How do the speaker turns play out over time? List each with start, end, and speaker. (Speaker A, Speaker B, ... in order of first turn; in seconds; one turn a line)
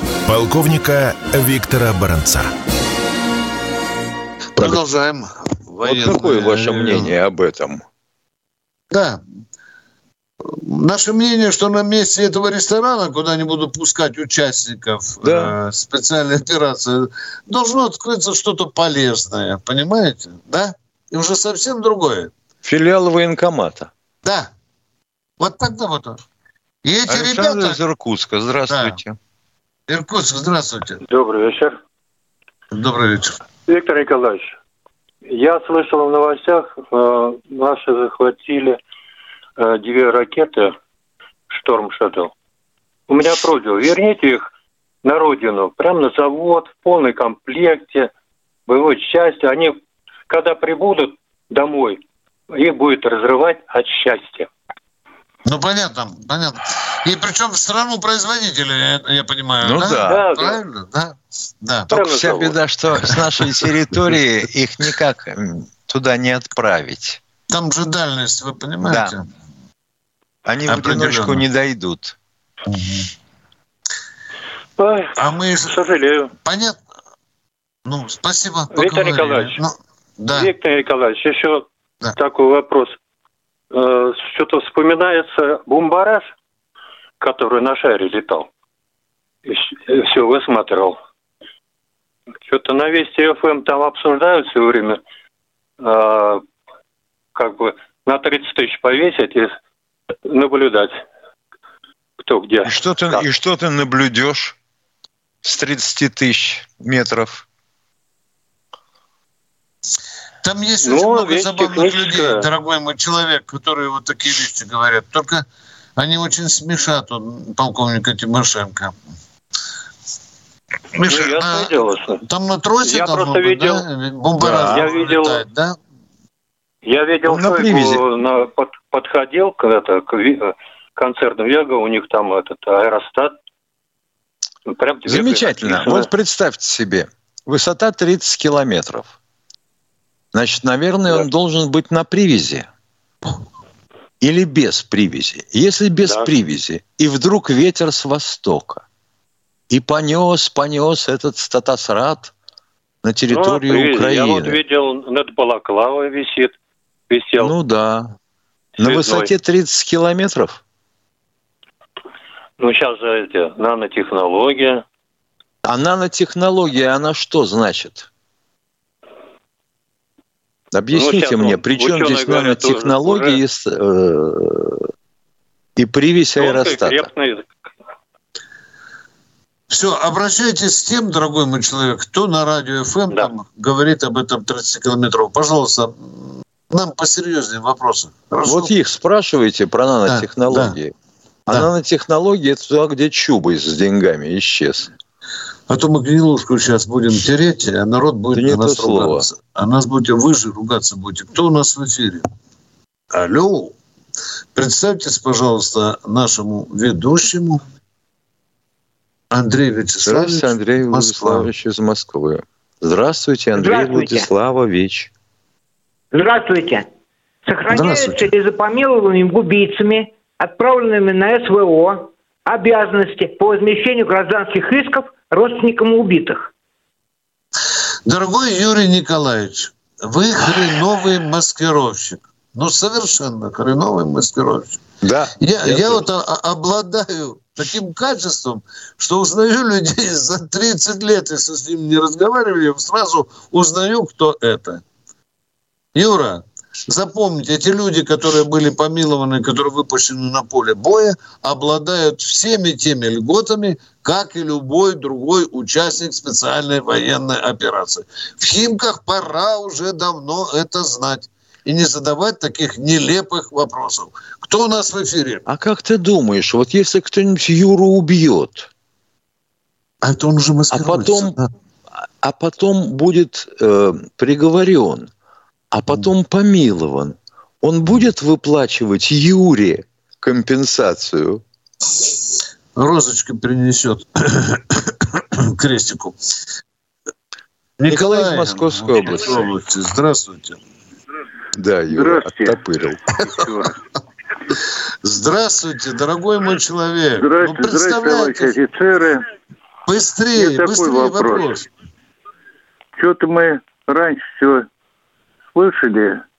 Speaker A: 0.3-2.5
Speaker B: 4.6-7.2
Speaker C: 5.8-7.8
Speaker B: 8.9-9.2
Speaker B: 10.4-22.3
Speaker C: 15.2-15.5
Speaker C: 22.6-23.9
Speaker B: 24.2-24.5
Speaker B: 25.4-26.2
Speaker B: 26.8-27.8
Speaker C: 27.1-29.2
Speaker B: 28.7-29.0
Speaker B: 29.9-31.0
Speaker D: 31.1-31.8
Speaker B: 32.7-33.4
Speaker D: 33.7-34.5
Speaker D: 35.3-38.8
Speaker D: 39.6-40.8
Speaker D: 41.5-42.3
Speaker D: 43.1-44.5
Speaker D: 45.0-48.1
Speaker D: 48.7-49.8
Speaker D: 50.3-54.5
Speaker B: 55.5-61.9
Speaker C: 59.6-60.3
Speaker D: 60.1-60.6
Speaker D: 61.9-62.6
Speaker C: 61.9-67.2
Speaker B: 67.5-69.2
Speaker C: 68.9-69.1
Speaker C: 70.5-72.2
Speaker B: 70.7-71.4
Speaker B: 72.7-73.1
Speaker D: 74.8-75.2
Speaker B: 75.2-75.8
Speaker D: 75.7-76.3
Speaker B: 76.4-76.8
Speaker B: 77.8-80.5
Speaker D: 78.7-79.6
Speaker D: 80.3-83.0
Speaker D: 83.7-86.3
Speaker D: 87.2-88.5
Speaker D: 89.5-91.0
Speaker D: 92.5-95.0
Speaker D: 95.8-96.4
Speaker D: 97.3-99.6
Speaker D: 100.3-101.0
Speaker D: 102.2-103.3
Speaker C: 102.7-104.6
Speaker C: 105.4-107.5
Speaker B: 110.4-115.5
Speaker D: 110.8-112.5
Speaker B: 116.0-118.9
Speaker B: 120.9-125.8
Speaker D: 121.1-122.2
Speaker D: 122.8-123.8
Speaker C: 124.4-124.9
Speaker D: 124.5-125.4
Speaker D: 126.8-133.3
Speaker C: 127.3-128.0
Speaker D: 134.7-136.1
Speaker C: 135.1-139.1
Speaker C: 140.3-142.7
Speaker C: 144.2-148.8
Speaker D: 146.0-146.3
Speaker C: 149.7-152.3
Speaker C: 153.0-154.6
Speaker D: 153.3-156.5
Speaker D: 157.1-157.6
Speaker C: 157.4-158.1
Speaker D: 158.8-159.3
Speaker C: 158.8-160.6
Speaker D: 162.6-164.8
Speaker C: 165.6-168.1
Speaker C: 170.7-174.8
Speaker D: 170.9-173.4
Speaker C: 175.8-177.1
Speaker D: 176.4-177.5
Speaker B: 179.7-188.7
Speaker C: 188.4-190.9
Speaker B: 190.1-190.8
Speaker C: 191.5-194.9
Speaker B: 195.7-202.3
Speaker C: 198.3-199.3
Speaker B: 203.1-203.8
Speaker B: 204.6-207.6
Speaker B: 209.3-211.5
Speaker C: 210.1-215.1
Speaker E: 213.6-214.3
Speaker E: 216.1-216.8
Speaker E: 217.5-226.5
Speaker B: 217.7-218.2
Speaker B: 228.1-234.8
Speaker C: 235.0-236.0
Speaker B: 235.4-244.8
Speaker B: 245.9-265.4
Speaker C: 265.5-268.7
Speaker B: 270.0-271.5
Speaker C: 270.7-271.4
Speaker C: 272.2-275.1
Speaker C: 275.7-281.4
Speaker B: 282.8-286.2
Speaker B: 287.8-290.6
Speaker C: 287.9-289.5
Speaker C: 291.6-293.0
Speaker F: 291.9-292.6
Speaker F: 293.3-293.8
Speaker B: 295.0-298.6
Speaker F: 297.2-299.2
Speaker B: 299.9-301.7
Speaker F: 300.4-301.6
Speaker F: 303.0-304.7
Speaker F: 305.5-306.2